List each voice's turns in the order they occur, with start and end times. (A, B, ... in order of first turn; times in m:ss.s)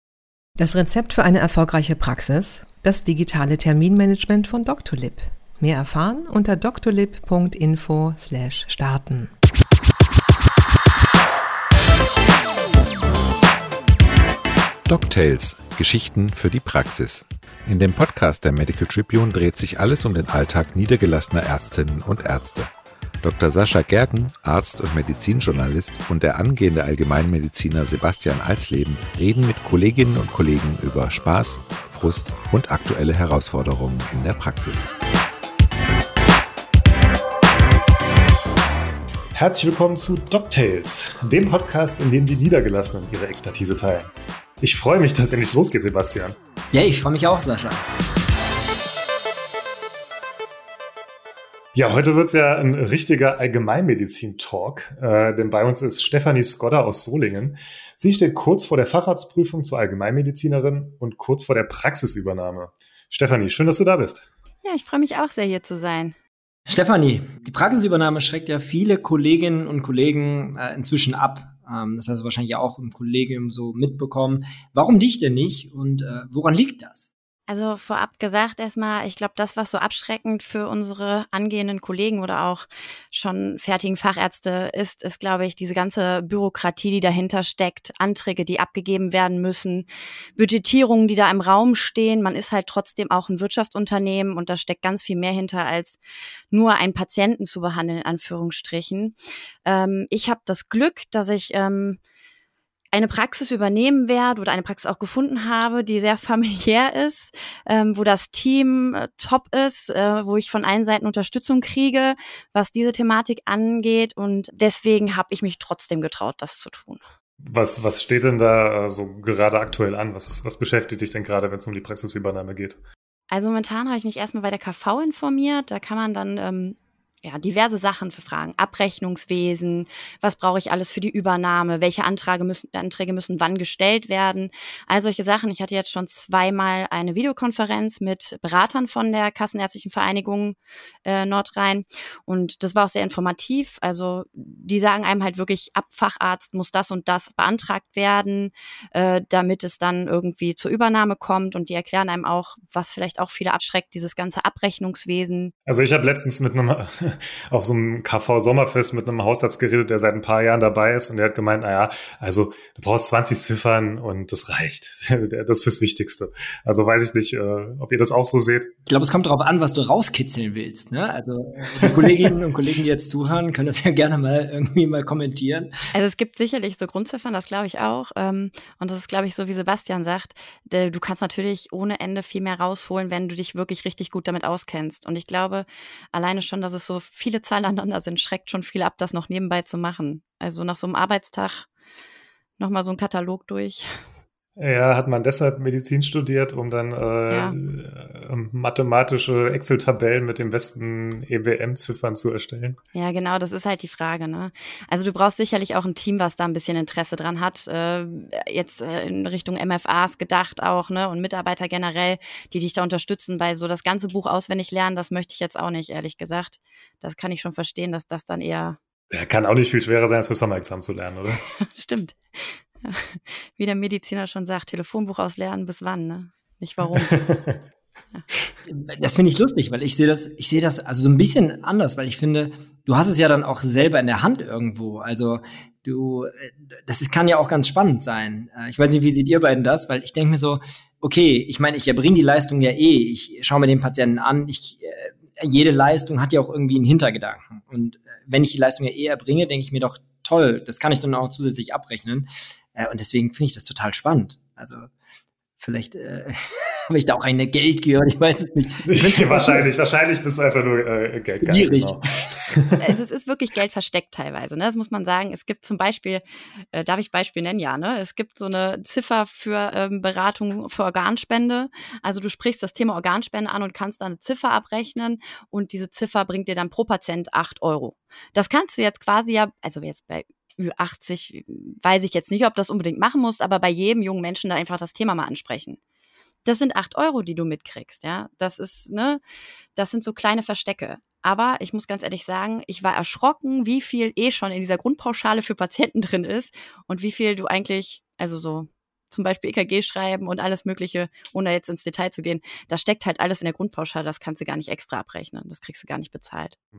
0:00.6-0:09.3 A
0:14.9-0:22.7 B
0:23.2-0:34.9 B
0:39.4-0:46.4 C
0:46.7-0:47.8 D
0:51.8-1:04.3 C
1:04.6-1:06.2 E
1:06.7-1:17.1 D
1:17.5-1:36.0 E
1:36.5-1:42.0 E
1:42.9-1:57.0 E
1:57.4-2:02.8 C
2:03.3-2:35.5 E
2:35.7-2:48.7 C
2:48.9-2:55.7 D
2:51.8-2:52.3 C
2:55.9-3:11.7 E
3:12.6-3:13.9 E
3:14.6-3:22.8 C
3:17.3-3:17.6 E
3:22.9-3:38.8 E
3:39.1-3:41.4 C
3:41.6-3:47.2 E
3:46.9-3:47.6 C
3:48.7-4:14.9 D
4:15.6-4:19.7 D
4:18.9-4:22.8 C
4:21.4-4:22.0 D
4:22.8-4:45.8 E
4:46.4-4:49.2 E
4:49.8-5:06.6 E